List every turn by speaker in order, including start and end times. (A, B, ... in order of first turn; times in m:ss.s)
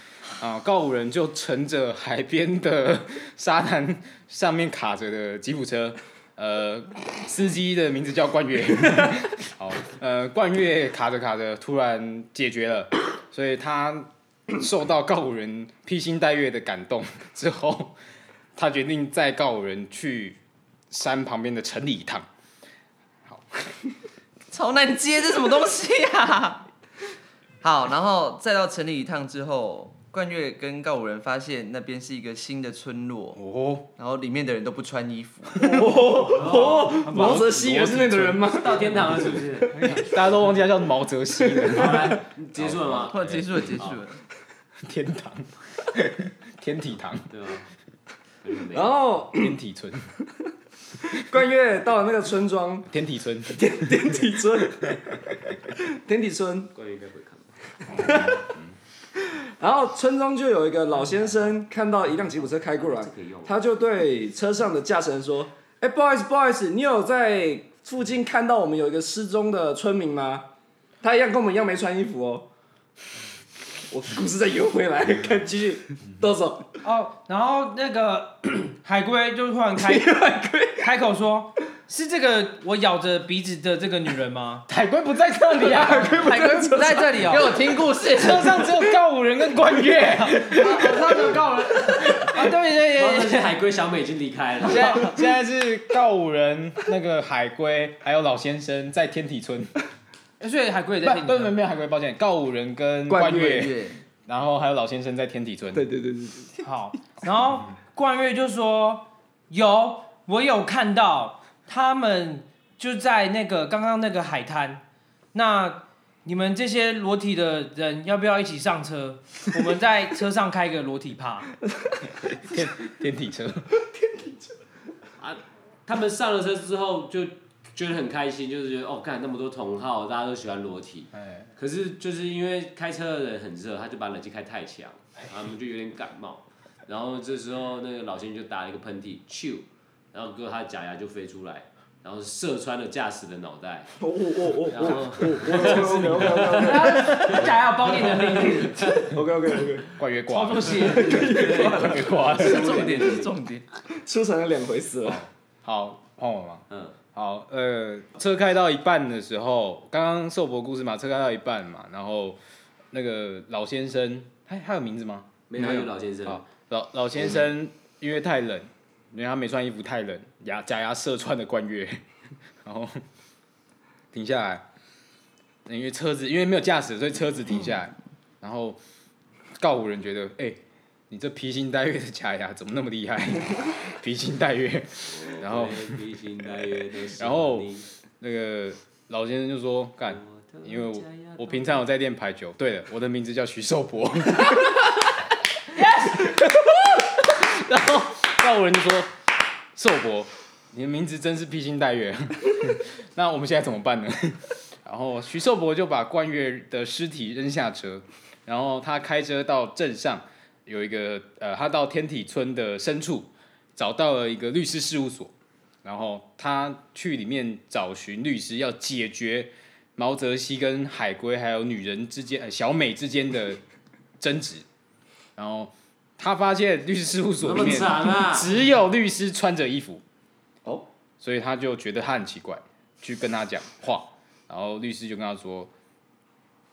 0:00.4-0:18.0 A
0:18.6-0:20.4 A
0:20.9-0:22.3 A
0:23.3-0:23.7 A
0:24.5-0:26.7 B
0:27.6-0:33.4 B
0:33.4-0:33.9 A
0:34.0-0:35.8 B
0:35.6-0:38.8 C
0:35.7-0:37.4 D
0:36.4-0:37.2 E
0:37.1-0:38.5 A
0:38.5-0:40.0 E
0:39.7-0:40.1 D
0:39.8-0:43.8 A
0:41.6-0:43.2 E
0:43.1-0:44.2 B
0:44.8-0:47.3 A
0:47.3-0:47.7 E
0:48.4-0:48.9 E
0:48.7-0:49.6 C
0:49.4-0:50.1 A
0:51.0-0:52.9 C
0:52.9-0:54.1 A
0:53.5-0:55.2 C
0:55.8-0:56.7 C
0:56.8-0:57.5 E
0:57.9-0:58.4 C
0:58.0-0:58.7 A
0:59.2-1:10.5 C
1:02.6-1:03.5 E
1:11.0-1:12.5 C
1:13.9-1:16.7 C
1:16.8-1:20.1 D
1:19.8-1:20.9 C
1:20.7-1:24.7 D
1:24.7-1:26.4 A
1:25.9-1:27.5 C
1:25.9-1:27.5 D
1:27.2-1:28.6 B
1:28.1-1:31.3 A
1:30.1-1:33.5 D
1:33.0-1:35.0 E
1:34.7-1:35.2 D
1:34.7-1:39.7 A
1:40.4-1:41.6 D
1:41.0-1:45.9 A
1:43.1-1:43.7 C
1:43.5-1:44.0 B
1:45.7-1:46.5 C
1:46.6-1:54.8 D
1:55.3-2:01.5 D
2:02.3-2:03.7 A
2:05.2-2:23.9 E
2:11.1-2:11.5 A
2:24.0-2:27.2 C
2:24.7-2:29.0 E
2:26.5-2:29.0 D
2:29.0-2:29.9 C
2:30.0-2:33.0 A
2:30.3-2:31.5 D
2:30.8-2:32.1 C
2:31.2-2:33.4 E
2:32.2-2:33.7 B
2:33.9-2:35.2 C
2:35.0-2:42.4 A
2:36.7-2:37.0 E
2:42.9-2:52.0 A
2:45.5-2:46.4 E
2:52.6-2:53.0 A
2:54.1-2:54.6 A
2:55.7-2:58.8 A
2:59.6-3:06.0 A
3:05.1-3:07.9 E
3:07.2-3:14.9 A
3:10.1-3:11.8 E
3:15.7-3:16.3 D
3:16.2-3:19.1 A
3:19.8-3:35.3 A
3:35.8-3:43.6 A
3:44.2-3:44.6 A
3:45.4-3:50.0 A
3:47.4-3:48.5 E
3:51.2-3:55.7 A